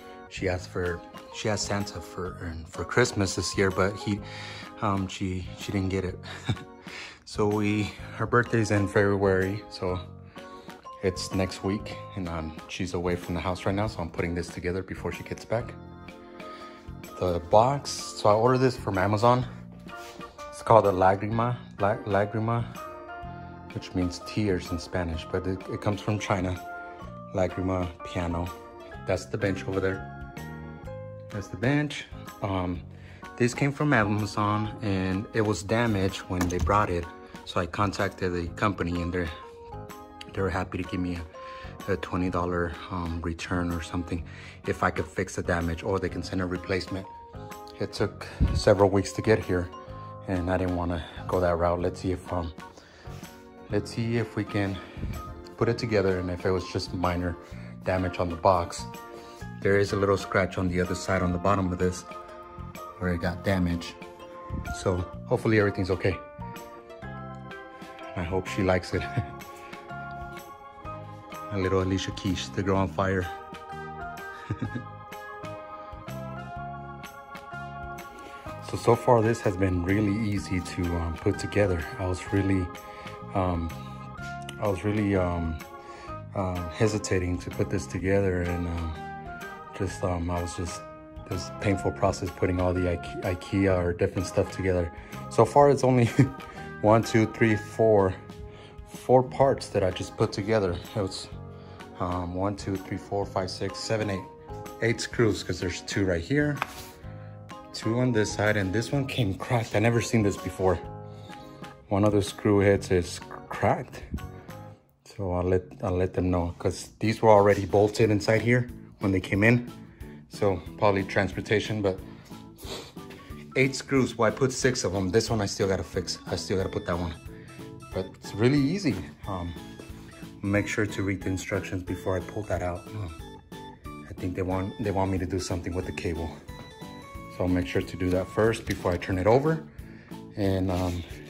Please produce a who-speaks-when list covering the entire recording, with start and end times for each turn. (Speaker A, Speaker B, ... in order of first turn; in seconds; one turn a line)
Speaker A: 0.3-4.2
Speaker A: 4.8-6.2
Speaker A: 7.2-10.0
Speaker A: 11.0-15.8
Speaker A: 17.1-19.5
Speaker A: 20.5-22.7
Speaker A: 23.7-26.6
Speaker A: 27.3-28.5
Speaker A: 29.0-30.1
Speaker A: 31.3-39.3
Speaker A: 40.3-41.3
Speaker A: 41.8-47.1
Speaker A: 47.8-49.7
Speaker A: 50.2-52.5
Speaker A: 53.7-54.8
Speaker A: 55.5-58.9
Speaker A: 59.6-62.1
Speaker A: 63.0-64.0
Speaker A: 64.7-66.2
Speaker A: 68.1-69.1
Speaker A: 71.5-73.3
Speaker A: 74.5-74.8
Speaker A: 78.6-82.8
Speaker A: 83.3-83.8
Speaker A: 84.6-85.6
Speaker A: 86.3-89.0
Speaker A: 89.7-98.2
Speaker A: 98.8-101.3
Speaker A: 102.0-106.6
Speaker A: 107.7-110.8
Speaker A: 111.9-114.1
Speaker A: 115.0-119.7
Speaker A: 120.3-122.0
Speaker A: 123.5-127.2
Speaker A: 127.9-129.6
Speaker A: 130.4-133.2
Speaker A: 134.1-136.3
Speaker A: 137.3-139.7
Speaker A: 140.3-141.1